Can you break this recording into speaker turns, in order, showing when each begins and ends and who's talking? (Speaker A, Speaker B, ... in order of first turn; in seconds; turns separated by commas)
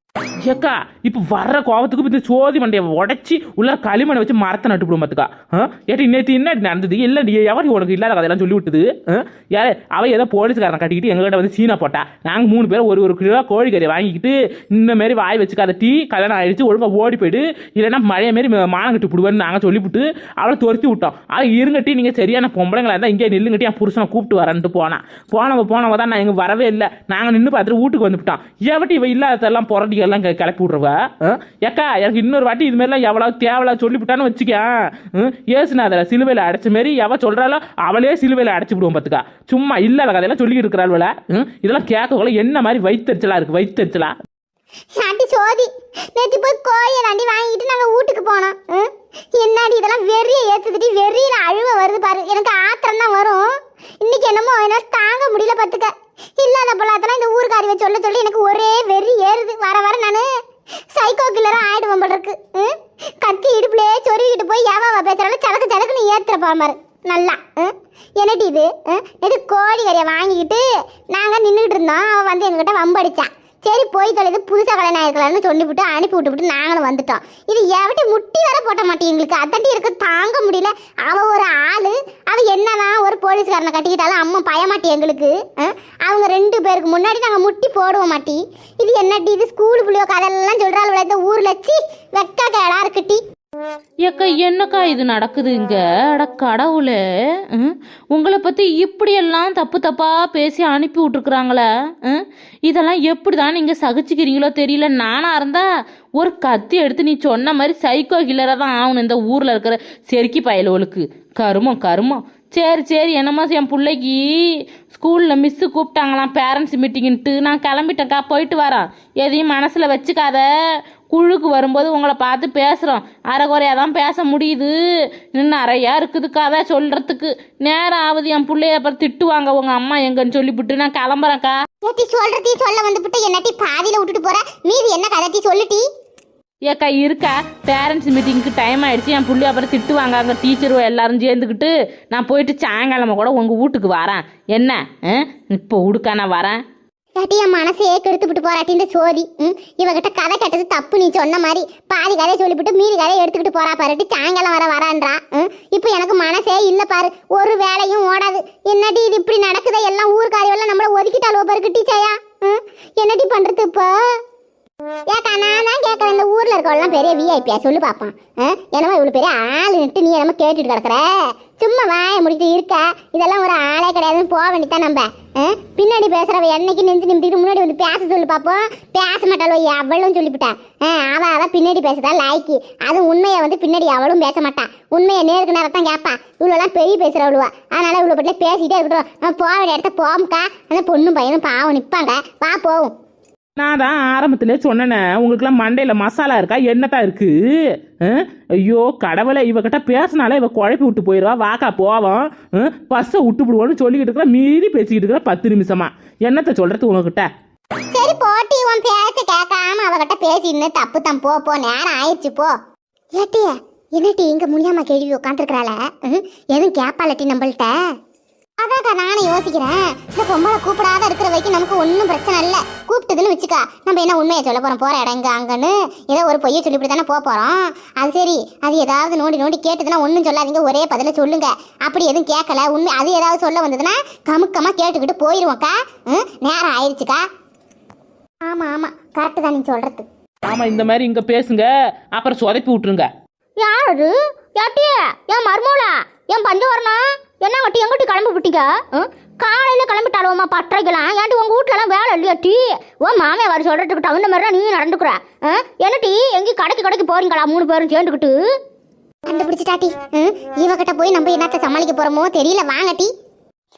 Speaker A: 0.4-44.1, Speaker B: 45.0-53.5, Speaker B: 54.0-60.2, Speaker B: 60.9-93.2, Speaker C: 94.0-97.0, Speaker C: 97.5-105.7, Speaker C: 106.2-120.5, Speaker C: 121.1-124.7, Speaker C: 125.3-131.6, Speaker B: 131.8-135.8, Speaker C: 136.7-146.6, Speaker B: 147.2-163.9, Speaker B: 165.1-192.9, Speaker A: 193.6-197.3, Speaker A: 198.0-207.3, Speaker B: 207.9-212.5, Speaker B: 213.1-217.7, Speaker B: 218.6-237.2, Speaker B: 238.5-240.0, Speaker A: 240.5-243.1, Speaker D: 243.6-258.3, Speaker B: 259.3-263.1